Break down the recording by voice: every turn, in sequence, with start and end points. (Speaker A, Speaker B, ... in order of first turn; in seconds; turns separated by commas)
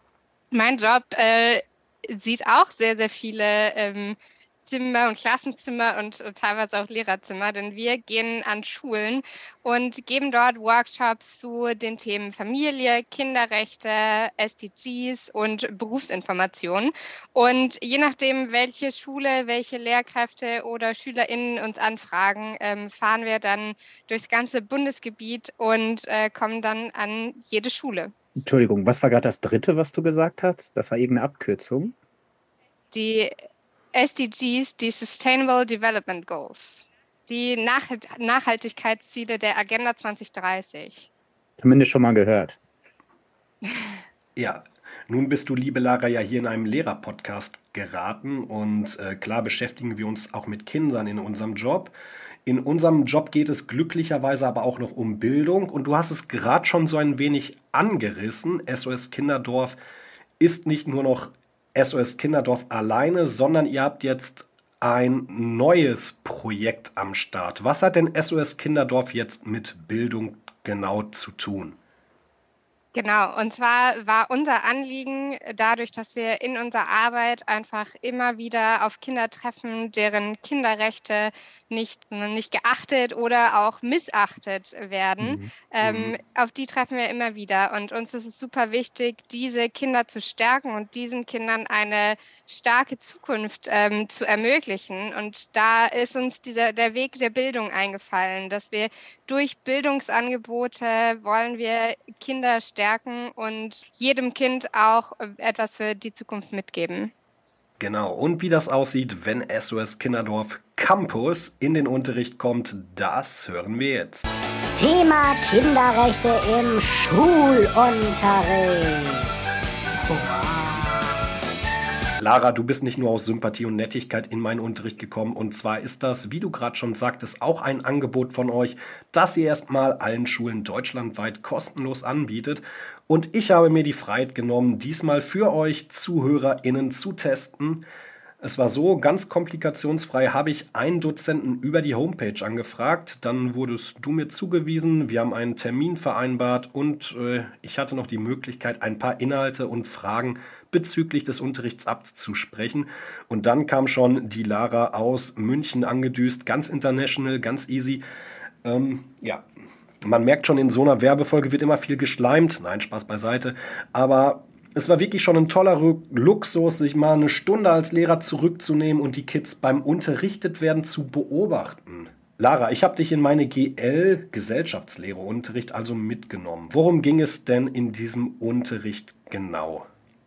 Speaker A: 0.5-28.1, Speaker B: 28.4-31.9, Speaker A: 32.9-33.3, Speaker A: 33.9-41.1, Speaker B: 41.6-42.6, Speaker A: 43.6-44.0, Speaker C: 44.4-51.9, Speaker C: 52.4-59.8, Speaker C: 60.4-71.8, Speaker A: 72.9-107.1, Speaker B: 85.2-85.5, Speaker C: 85.8-86.2, Speaker C: 107.8-114.3, Speaker D: 114.8-119.3, Speaker D: 120.0-121.3, Speaker C: 122.2-137.8, Speaker C: 138.4-158.0, Speaker C: 158.6-159.4, Speaker C: 160.0-179.9